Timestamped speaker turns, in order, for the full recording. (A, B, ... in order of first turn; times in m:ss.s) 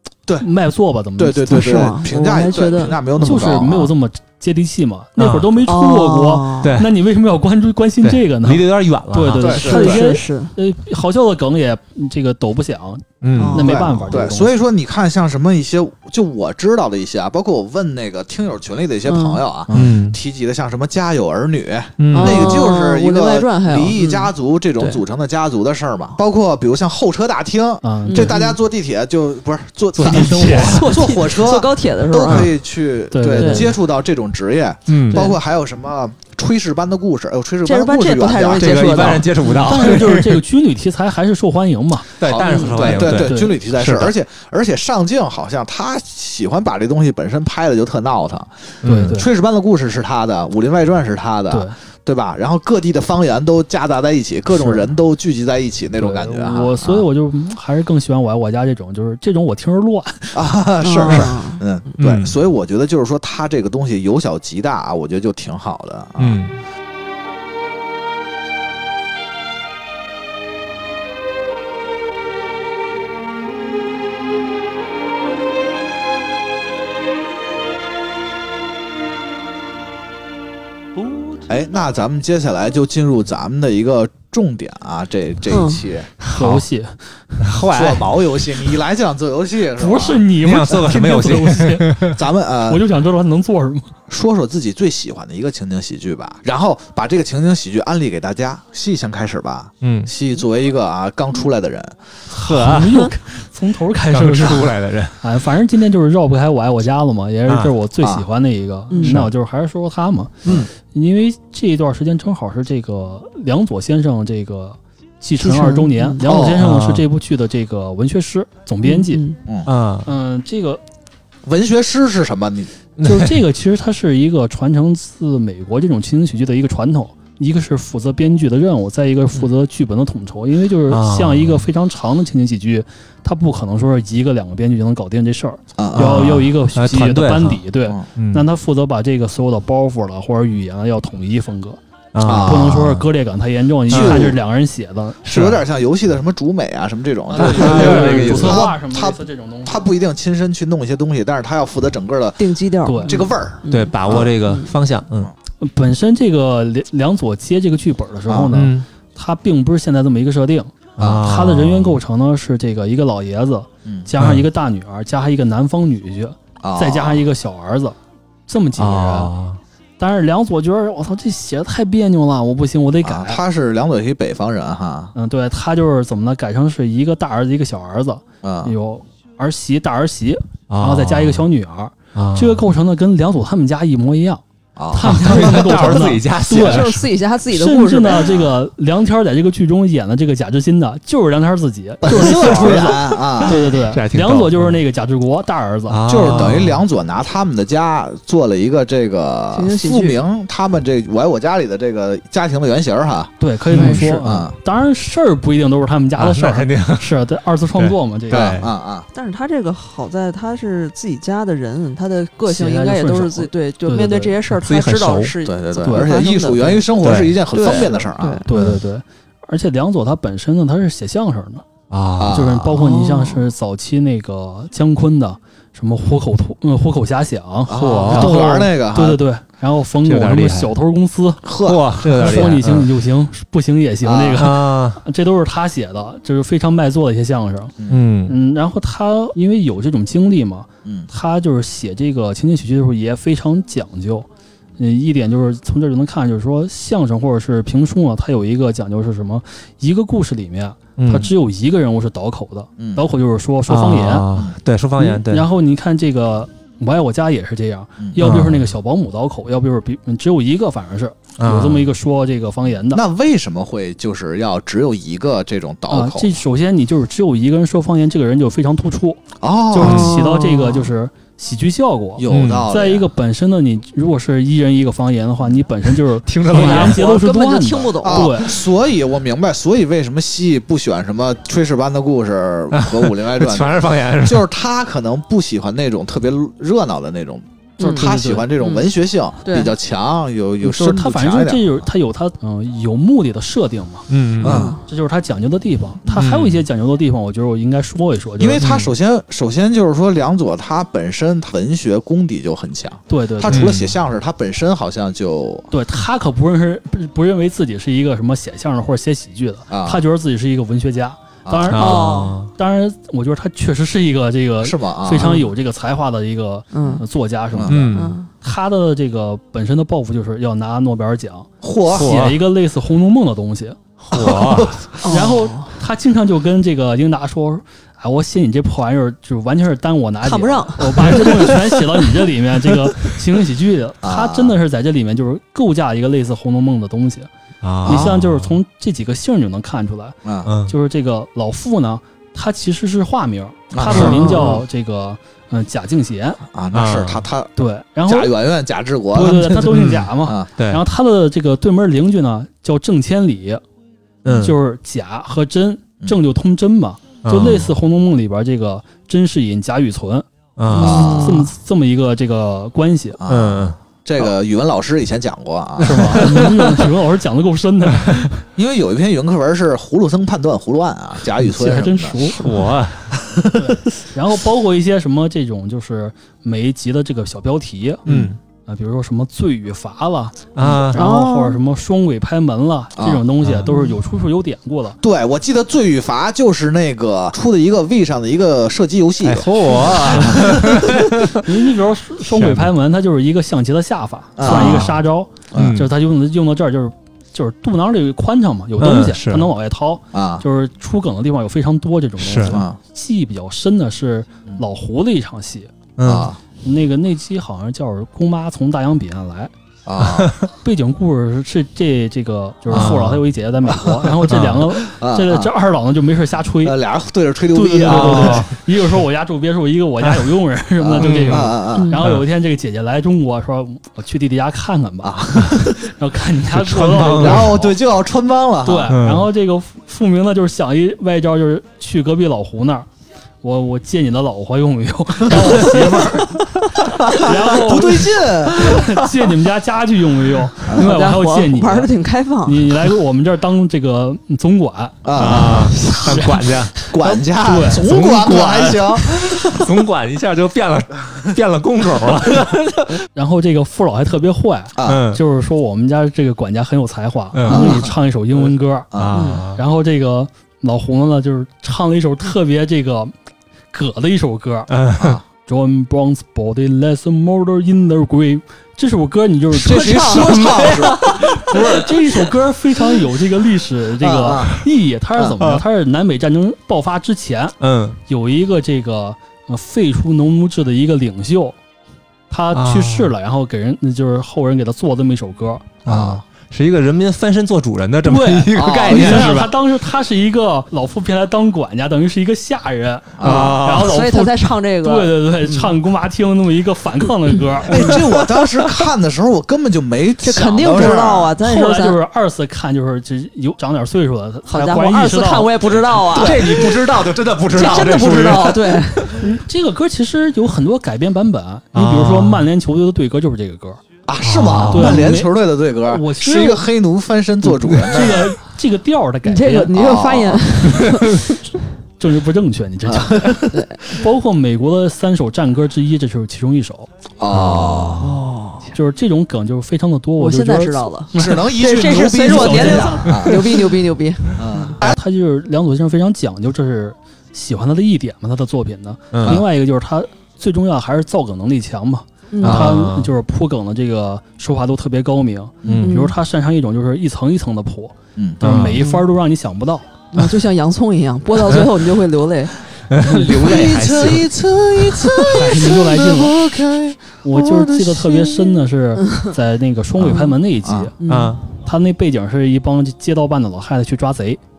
0:00.4-0:01.9 A
0:01.2-0:03.9 B
0:01.5-0:03.3 C
0:03.2-0:14.5 A
0:05.2-0:05.6 D
0:05.7-0:06.8 C
0:06.6-0:06.9 D
0:08.0-0:09.8 D
0:09.4-0:10.0 B
0:09.5-0:10.5 C
0:13.2-0:13.8 D
0:13.4-0:13.8 C
0:13.5-0:39.2 B
0:19.0-0:19.4 C
0:19.7-0:19.9 A
0:19.7-0:20.2 D
0:22.0-0:22.6 D
0:22.1-0:25.0 C
0:27.8-0:28.4 A
0:28.1-0:28.6 C
0:30.0-0:31.0 A
0:30.0-0:30.8 D
0:30.6-0:32.5 C
0:33.1-0:33.8 A
0:33.3-0:33.7 C
0:34.9-0:35.2 D
0:35.1-0:35.4 C
0:37.6-0:40.0 C
0:38.6-0:40.4 D
0:39.5-0:42.2 A
0:42.2-0:44.1 D
0:42.2-0:57.0 B
0:42.3-0:43.1 C
0:43.0-0:43.5 A
0:48.8-0:49.2 D
0:48.8-0:49.3 A
0:51.5-0:51.8 A
0:54.5-0:54.9 A
0:56.0-1:00.4 A
1:00.3-1:06.4 B
1:00.8-1:01.6 C
1:02.0-1:02.3 D
1:06.2-1:06.6 D
1:21.4-1:26.1 B
1:25.5-1:25.8 C
1:26.2-1:26.6 D
1:26.3-1:27.0 A
1:27.4-1:28.7 D
1:27.7-1:30.3 B
1:29.8-1:32.1 A
1:30.4-1:32.2 D
1:32.1-1:32.8 B
1:32.7-1:34.0 A
1:34.1-1:42.0 B
1:39.8-1:40.1 D
1:42.3-1:59.2 A
1:42.4-1:43.1 D
1:44.1-1:45.2 D
1:47.5-1:47.7 D
1:48.0-1:48.3 B
1:48.9-1:49.2 C
1:49.0-1:49.3 D
1:55.4-1:56.2 C
1:56.2-1:56.7 B
1:56.5-1:57.0 D
1:58.8-1:59.4 C
1:59.4-1:59.7 B
1:59.6-2:00.1 D
2:00.0-2:00.8 A
2:01.4-2:02.7 B
2:03.0-2:03.4 D
2:03.0-2:25.2 A
2:10.9-2:11.6 D
2:15.8-2:16.3 B
2:15.9-2:17.6 D
2:18.2-2:18.5 D
2:22.1-2:22.6 D
2:22.2-2:23.1 B
2:23.9-2:24.4 B
2:23.9-2:24.3 D
2:25.2-2:25.6 D
2:25.2-2:32.4 B
2:27.3-2:29.9 A
2:27.4-2:28.7 D
2:32.4-2:34.7 C
2:32.8-2:33.1 A
2:33.0-2:34.3 B
2:33.7-2:35.3 D
2:35.6-2:48.0 A
2:38.3-2:38.6 B
2:38.5-2:38.8 D
2:41.0-2:41.3 B
2:41.0-2:42.0 D
2:44.2-2:44.4 D
2:46.6-2:47.2 B
2:48.5-2:49.3 A
2:48.8-2:49.6 D
2:50.0-2:53.4 A
2:53.0-2:55.1 B
2:55.1-3:06.9 A
2:58.4-2:58.7 B
3:00.7-3:01.4 D
3:02.1-3:02.6 D
3:04.8-3:05.9 B
3:05.0-3:07.0 D
3:06.5-3:08.5 C
3:07.5-3:16.4 A
3:12.0-3:13.6 B
3:13.6-3:14.8 D
3:15.9-3:16.8 D
3:16.0-3:23.3 B
3:19.5-3:20.2 C
3:23.4-3:28.5 A
3:23.7-3:24.0 D
3:23.7-3:24.1 C
3:23.9-3:24.5 B
3:26.2-3:27.2 D
3:27.8-3:28.7 D
3:28.3-3:29.1 B
3:29.1-3:36.9 C
3:32.4-3:34.4 A
3:34.6-3:35.3 D
3:35.4-3:38.5 B
3:35.8-3:36.1 A
3:37.0-3:37.4 D
3:37.5-3:38.5 C
3:38.5-3:41.6 A
3:41.9-3:42.5 D
3:42.2-3:42.8 B
3:42.3-3:51.4 A
3:42.7-3:43.4 C
3:47.7-3:49.2 B
3:47.8-3:48.3 D
3:50.0-3:50.7 D
3:51.4-3:52.6 B
3:51.6-3:52.9 D
3:52.1-3:57.7 A
3:54.0-3:54.5 B
3:54.4-3:55.0 D
3:57.8-3:58.0 B
3:57.9-3:58.4 D
3:58.3-4:14.2 A
4:00.8-4:01.1 B
4:11.0-4:11.3 D
4:12.8-4:13.0 B
4:13.7-4:15.5 D
4:15.0-4:23.0 A
4:18.0-4:18.4 B
4:18.2-4:18.6 D
4:21.4-4:21.9 D
4:22.9-4:26.4 B
4:25.9-4:38.5 A
4:29.4-4:30.1 B
4:29.8-4:30.9 C
4:29.8-4:30.1 D
4:32.2-4:33.1 B
4:32.3-4:32.7 D
4:36.2-4:37.0 D
4:36.5-4:38.5 C
4:38.0-4:51.8 B
4:42.7-4:44.4 D
4:47.8-4:48.9 C
4:47.9-4:48.4 A
4:49.4-4:49.7 C
4:50.6-4:58.6 A
4:54.1-4:54.7 D
4:54.4-4:54.7 B
4:54.4-4:54.8 C
4:56.2-4:56.6 D
4:58.4-5:05.7 B
4:58.6-4:58.9 D
5:03.1-5:03.7 A
5:03.5-5:03.9 D
5:05.7-5:23.8 A
5:09.7-5:10.0 B
5:11.4-5:11.8 B
5:11.7-5:12.5 D
5:11.7-5:12.4 C
5:14.6-5:15.4 B
5:15.2-5:15.5 C
5:16.7-5:17.0 C
5:17.5-5:17.9 B
5:17.7-5:18.2 D
5:17.9-5:18.3 C
5:21.6-5:22.2 B
5:21.9-5:22.4 D
5:24.0-5:24.8 D
5:24.1-5:24.7 B
5:25.0-5:25.7 C
5:25.0-5:37.3 A
5:30.2-5:31.3 C
5:34.0-5:34.6 B
5:37.6-5:38.6 D
5:37.8-5:38.1 B
5:37.8-5:46.4 A
5:40.2-5:40.5 B
5:40.4-5:40.7 D
5:43.7-5:44.5 B
5:43.9-5:44.3 D
5:44.0-5:44.6 C
5:46.5-5:47.5 B
5:46.7-5:47.2 D
5:47.6-5:48.3 A
5:48.1-5:50.5 B
5:49.1-5:53.6 A
5:49.6-5:50.8 D
5:54.2-5:54.6 D
5:54.4-6:00.2 A
5:57.2-5:57.7 D
6:00.6-6:01.4 D
6:00.7-6:01.4 C
6:00.8-6:01.4 B
6:00.8-6:03.2 A
6:03.2-6:06.5 B
6:03.3-6:03.8 D
6:05.8-6:08.4 A
6:05.9-6:06.7 D
6:08.6-6:13.7 B
6:11.4-6:12.6 A
6:12.3-6:13.1 D
6:13.5-6:18.0 A
6:18.0-6:18.3 B
6:18.0-6:18.4 D
6:18.7-6:25.0 A
6:20.5-6:21.0 D
6:20.9-6:21.6 C
6:23.0-6:23.2 B
6:23.4-6:23.7 D
6:23.7-6:24.0 C
6:25.0-6:31.0 B
6:29.2-6:31.5 D
6:29.8-6:45.7 A
6:32.2-6:32.7 D
6:34.4-6:34.9 B
6:34.4-6:35.0 D
6:35.5-6:35.8 B
6:35.5-6:35.9 D
6:38.8-6:39.5 D
6:40.1-6:40.4 B
6:42.2-6:42.6 D
6:42.4-6:42.8 B
6:46.0-6:46.3 D
6:46.0-6:46.4 B
6:46.6-6:49.5 A
6:49.8-6:50.3 B
6:50.0-6:50.5 D
6:50.6-6:56.8 A
6:52.7-6:53.1 B
6:52.7-6:53.2 D
6:53.7-6:55.5 B
6:54.2-6:54.7 D
6:56.6-6:58.5 B
6:57.5-7:07.7 A
6:57.8-6:58.5 D
7:00.0-7:00.3 D
7:00.8-7:01.9 B
7:01.0-7:02.2 D
7:01.7-7:02.0 C
7:05.0-7:05.8 B
7:06.5-7:07.7 D
7:07.2-7:09.0 B
7:08.6-7:12.9 A
7:08.9-7:09.3 D
7:13.4-7:21.9 A
7:15.5-7:15.8 D
7:17.1-7:18.8 B
7:20.7-7:20.9 B
7:20.7-7:22.7 C
7:22.4-7:26.5 A
7:25.0-7:25.9 B
7:25.2-7:26.7 D
7:26.9-7:29.6 B
7:27.1-7:27.8 A
7:27.7-7:33.0 D
7:33.1-7:38.9 A
7:34.7-7:35.1 B
7:34.8-7:35.2 D
7:37.3-7:37.8 D
7:37.4-7:37.9 B
7:38.9-7:39.4 B
7:38.9-7:39.6 D
7:39.1-7:39.4 C
7:39.5-7:43.1 A
7:43.7-7:44.7 A
7:44.7-7:45.2 D
7:45.0-7:45.2 B
7:45.4-7:57.6 A
7:49.5-7:51.5 B
7:49.9-7:50.3 C
7:50.0-7:51.8 D
7:54.0-7:55.4 B
7:57.6-7:58.0 D
7:58.1-8:01.6 A
8:02.3-8:05.8 A
8:02.5-8:03.1 D
8:05.8-8:09.5 D
8:05.8-8:06.2 B
8:08.0-8:18.0 A
8:08.5-8:09.4 B
8:13.2-8:13.6 B
8:13.2-8:15.2 C
8:13.2-8:14.0 D
8:17.6-8:21.3 B
8:17.8-8:18.7 C
8:20.2-8:22.0 C
8:21.4-8:25.9 A
8:24.5-8:26.9 C
8:26.1-8:29.2 D
8:26.2-8:26.4 B
8:27.5-8:29.2 C
8:29.2-8:33.8 A
8:31.7-8:32.5 D
8:34.0-8:38.3 B
8:34.2-8:35.1 D
8:34.7-8:36.6 A
8:37.6-8:39.7 A
8:39.2-8:41.4 C
8:39.7-8:40.6 B
8:42.0-8:46.9 A
8:42.8-8:43.6 B
8:43.5-8:43.8 C
8:47.2-8:48.1 B
8:47.3-8:48.0 D
8:48.0-8:48.7 C
8:48.7-8:51.5 A
8:50.2-8:54.8 C
8:51.2-8:53.6 B
8:52.2-8:53.1 A
8:54.4-8:55.0 B
8:54.8-9:09.9 A
8:59.1-8:59.4 D
9:02.3-9:02.8 C
9:02.4-9:03.1 D
9:05.6-9:05.9 B
9:05.6-9:05.9 D
9:05.8-9:06.1 C
9:08.2-9:08.4 B
9:08.4-9:08.8 D
9:10.1-9:12.6 C
9:12.9-9:14.3 D
9:13.0-9:18.6 B
9:15.3-9:16.4 A
9:17.2-9:20.9 A
9:20.0-9:20.9 B
9:20.0-9:20.4 C
9:21.0-9:21.4 C
9:21.0-9:21.4 D
9:21.6-9:24.4 A